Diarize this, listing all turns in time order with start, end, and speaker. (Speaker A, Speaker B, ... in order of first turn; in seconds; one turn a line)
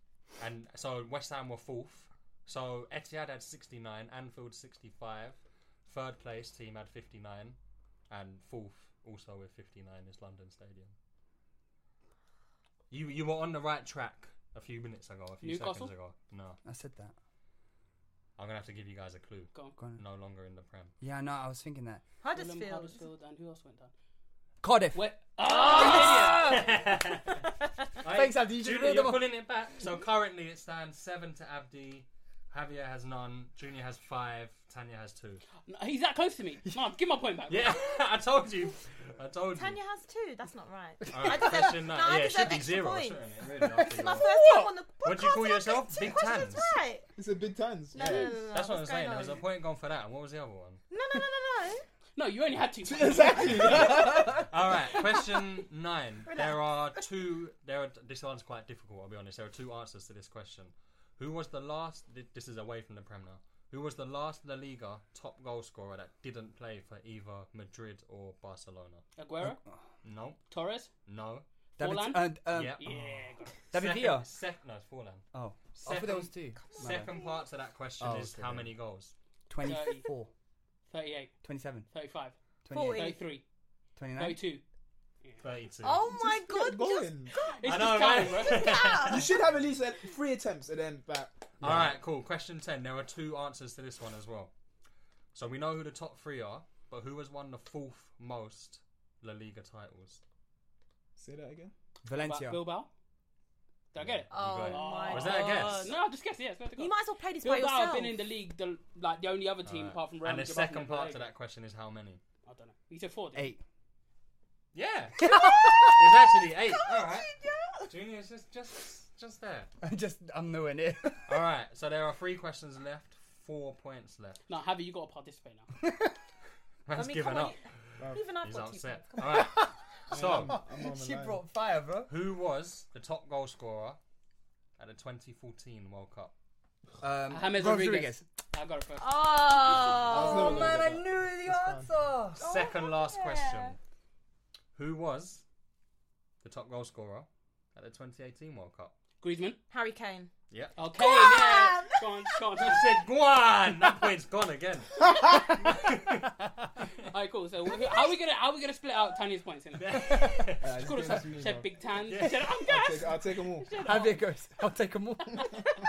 Speaker A: 0.4-7.6
Speaker A: 8.1-10.9
Speaker A: 12.9-16.6
Speaker B: 15.4-15.9
Speaker C: 16.6-17.1
Speaker A: 18.4-20.9
Speaker C: 21.0-22.0
Speaker D: 22.2-23.1
Speaker B: 22.3-23.9
Speaker C: 24.6-26.8
Speaker B: 24.9-26.6
Speaker A: 26.4-27.5
Speaker A: 28.0-35.4
Speaker C: 28.1-29.3
Speaker B: 35.7-37.8
Speaker A: 37.5-39.8
Speaker D: 39.5-47.1
Speaker A: 41.1-44.3
Speaker B: 44.4-44.7
Speaker A: 45.0-46.8
Speaker E: 47.2-48.3
Speaker D: 47.9-49.4
Speaker A: 48.0-50.8
Speaker D: 50.9-51.8
Speaker B: 52.2-54.0
Speaker E: 52.9-54.5
Speaker A: 53.8-69.0
Speaker D: 56.3-56.7
Speaker B: 69.2-69.6
Speaker C: 69.4-69.8
Speaker A: 70.0-70.5
Speaker B: 70.5-70.9
Speaker A: 71.0-71.5
Speaker C: 71.8-72.8
Speaker B: 71.8-73.6
Speaker A: 72.5-72.9
Speaker C: 73.7-74.3
Speaker A: 73.7-79.1
Speaker C: 75.3-77.1
Speaker D: 76.7-77.4
Speaker C: 78.0-78.7
Speaker C: 79.5-80.3
Speaker B: 79.6-80.1
Speaker B: 80.9-81.3
Speaker C: 81.4-81.9
Speaker B: 81.9-82.4
Speaker C: 82.7-83.1
Speaker D: 82.7-83.3
Speaker B: 82.9-83.4
Speaker C: 84.0-84.4
Speaker B: 84.2-84.6
Speaker A: 85.4-86.0
Speaker D: 85.8-87.7
Speaker E: 86.0-87.3
Speaker B: 87.6-88.8
Speaker A: 87.6-89.3
Speaker D: 88.4-89.3
Speaker E: 89.1-92.0
Speaker A: 91.6-94.5
Speaker A: 95.3-100.2
Speaker E: 101.2-101.7
Speaker C: 102.0-102.6
Speaker B: 102.2-102.9
Speaker B: 103.9-111.3
Speaker A: 104.0-105.9
Speaker D: 104.3-106.0
Speaker D: 106.8-108.2
Speaker A: 109.7-112.2
Speaker B: 112.5-113.5
Speaker C: 113.3-113.6
Speaker A: 114.7-117.3
Speaker C: 115.2-116.0
Speaker D: 116.8-117.9
Speaker A: 117.9-119.7
Speaker C: 119.8-121.4
Speaker A: 121.3-124.4
Speaker B: 124.5-125.7
Speaker C: 125.8-126.1
Speaker A: 126.9-127.6
Speaker D: 126.9-127.6
Speaker E: 128.0-128.2
Speaker D: 128.1-129.6
Speaker A: 128.4-130.6
Speaker C: 129.3-129.7
Speaker E: 130.1-131.4
Speaker C: 130.3-132.1
Speaker A: 132.1-134.0
Speaker A: 134.8-136.3
Speaker C: 137.0-138.2
Speaker B: 137.3-139.7
Speaker D: 139.0-140.8
Speaker C: 139.7-142.4
Speaker E: 140.0-141.9
Speaker D: 142.4-143.8
Speaker A: 142.4-143.8
Speaker A: 144.8-145.4
Speaker A: 146.4-148.9
Speaker B: 149.2-149.6
Speaker D: 149.7-150.3
Speaker A: 150.5-150.8
Speaker B: 150.8-152.9
Speaker D: 150.9-152.5
Speaker A: 152.6-156.3
Speaker B: 157.1-164.1
Speaker A: 159.8-160.8
Speaker E: 160.6-161.7
Speaker A: 162.1-162.5
Speaker E: 162.6-163.7
Speaker D: 163.8-164.1
Speaker C: 163.8-165.6